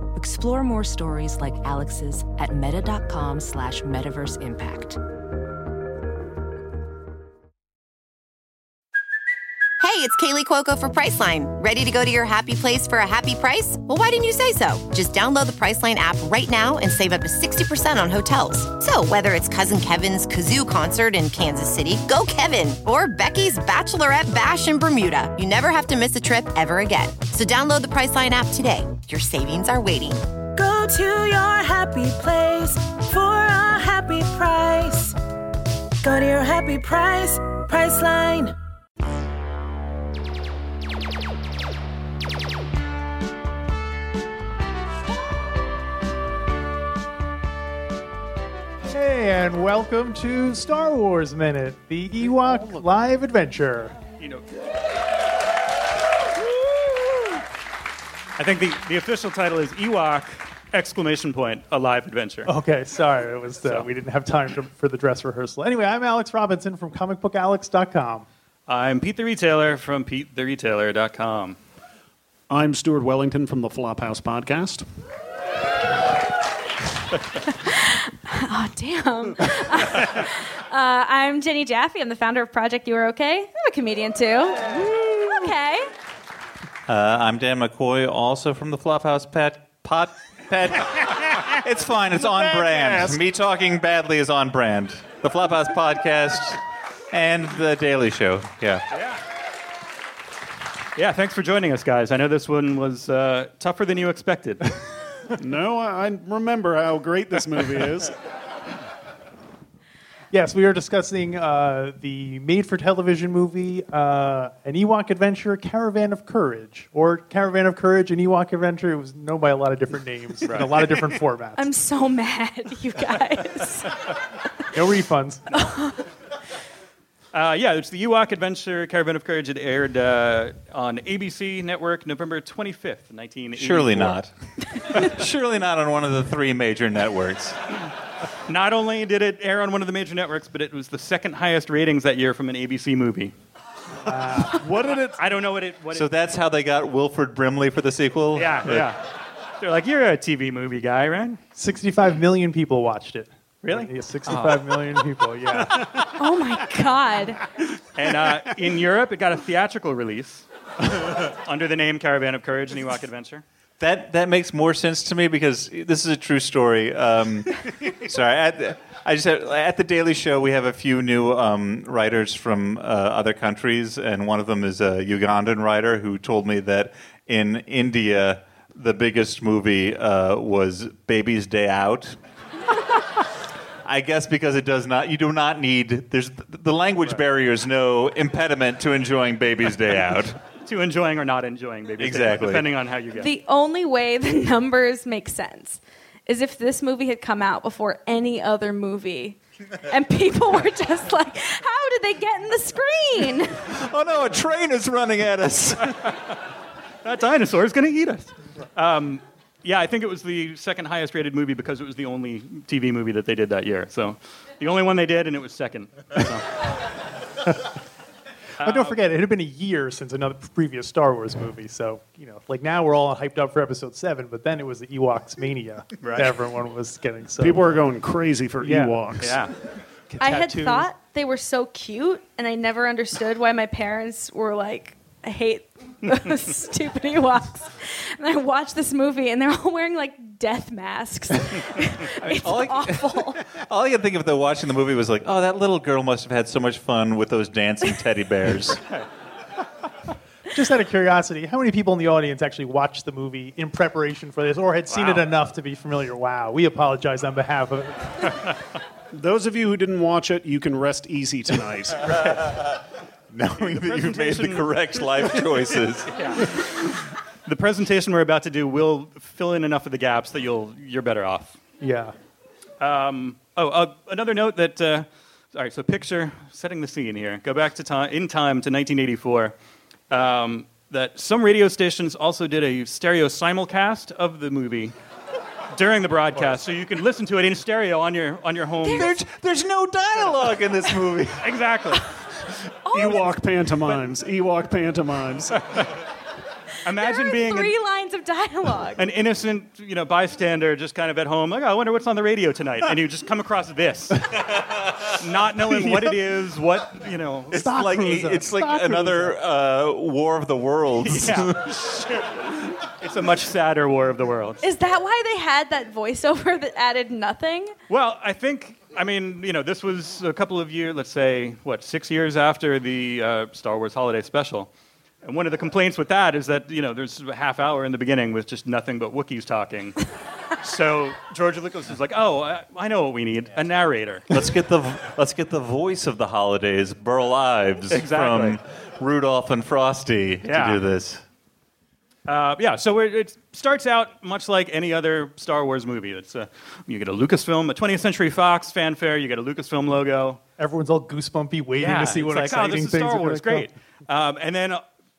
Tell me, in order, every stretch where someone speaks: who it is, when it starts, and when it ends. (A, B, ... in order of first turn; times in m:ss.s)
0:00.1-0:05.0 A
0:09.8-0:30.2 B
0:30.5-0:35.2 C
0:36.0-0:38.5 C
0:48.8-0:53.9 D
0:54.2-0:54.4 E
0:58.4-1:02.5 E
1:02.4-1:08.2 D
1:08.7-1:11.6 E
1:12.5-1:14.8 F
1:17.6-1:25.9 G
1:26.9-1:38.8 H
1:32.2-1:33.2 F
1:38.9-1:39.2 E
1:41.0-1:44.7 E
1:45.4-1:48.1 F
1:50.3-2:01.6 D
2:00.4-2:00.7 E
2:01.6-2:04.0 G
2:04.7-2:05.7 D
2:05.5-2:06.0 G
2:07.3-2:14.2 E
2:13.6-2:14.3 H
2:14.9-2:17.6 H
2:18.5-2:23.3 E
2:24.0-2:24.6 D
2:24.4-2:25.2 F
2:25.2-2:26.1 E
2:25.9-2:28.9 H
2:28.3-2:29.1 E
2:29.6-2:31.4 E
2:31.6-2:36.1 D
2:33.6-2:34.7 E
2:36.1-2:37.4 G
2:37.9-2:43.4 E
2:43.8-3:02.2 H
3:03.8-3:10.4 H
3:10.6-3:13.3 E
3:12.0-3:12.7 H
3:13.1-3:23.6 G
3:23.7-3:26.0 H
3:27.0-3:36.5 E
3:38.6-3:39.0 E
3:38.6-3:47.8 D
3:46.0-3:46.3 E
3:47.4-3:49.4 F
3:48.6-3:49.2 D
3:49.2-3:49.5 E
3:50.1-3:50.9 D
3:50.2-4:03.5 G
4:02.2-4:08.8 H
4:10.5-4:18.5 D
4:14.9-4:15.3 E
4:19.1-4:22.2 F
4:22.1-4:22.3 E
4:23.3-4:26.4 H
4:23.6-4:24.7 E
4:26.1-4:26.6 E
4:27.4-4:31.6 E
4:31.8-4:32.1 D
4:32.8-4:39.5 E
4:40.1-4:44.9 E
4:45.7-4:49.1 E
4:48.9-4:51.5 H
4:48.9-4:49.2 G
4:51.4-4:52.1 E
4:52.8-4:53.4 G
4:52.9-4:55.6 F
4:56.8-4:57.7 E
4:56.9-4:59.0 G
4:59.0-5:07.7 E
5:07.5-5:09.4 D
5:07.5-5:11.8 H
5:11.0-5:14.7 E
5:14.6-5:17.7 G
5:17.9-5:24.7 E
5:25.2-5:30.0 E
5:30.6-5:34.3 E
5:34.3-5:41.2 H
5:37.9-5:38.6 E
5:40.4-5:40.8 E
5:42.2-5:50.4 E
5:50.6-5:53.7 D
5:51.8-5:54.8 E